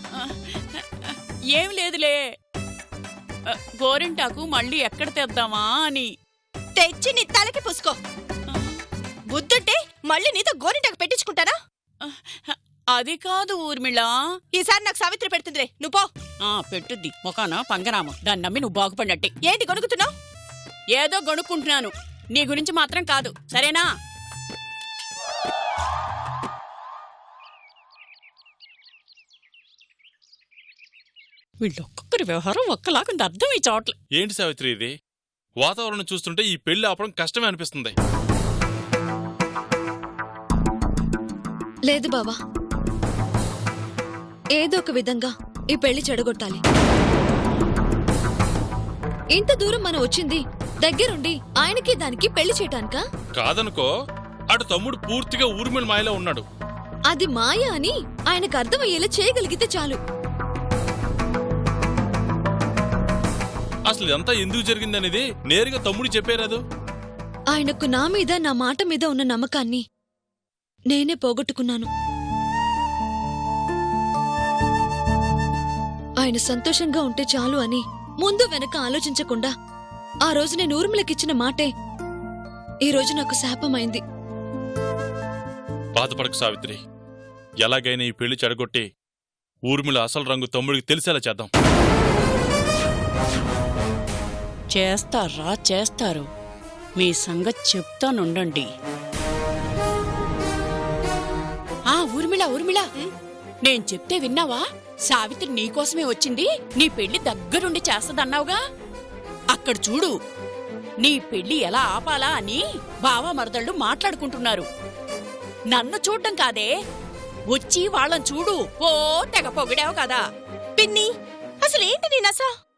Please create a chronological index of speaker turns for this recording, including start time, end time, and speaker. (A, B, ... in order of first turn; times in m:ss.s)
0:00.2-0:02.2 A
0:03.5-0:06.1 A
0:06.8-0:08.0 B
0:08.5-0:08.8 A
0:09.3-0:11.6 B
0:12.0-0:14.1 A
0:14.5-0:16.1 B
0:16.5-0:19.3 A
0:19.4-0:20.1 B
0:21.0-0:23.8 A
0:31.6-0:33.9 A
0:34.2-0:34.9 C
0:35.6-0:37.9 C
0:41.9-0:42.4 D
0:44.6-0:46.6 D
0:49.3-0:53.0 D
0:53.4-0:53.9 C
0:54.5-0:56.4 C
0:57.1-1:00.0 D
1:03.9-1:06.6 C
1:07.5-1:09.8 D
1:10.9-1:11.9 D
1:16.2-1:19.5 D
1:20.3-1:21.7 D
1:22.9-1:24.0 D
1:26.0-1:26.8 C
1:27.6-1:28.8 C
1:29.7-1:31.5 C
1:34.7-1:36.3 A
1:37.0-1:38.7 A
1:41.9-1:42.9 A
1:43.6-1:48.6 A
1:49.5-1:50.1 A
1:51.0-1:54.7 A
1:55.7-1:56.7 A
1:57.5-2:00.2 A
2:00.8-2:01.1 B
2:01.6-2:02.5 B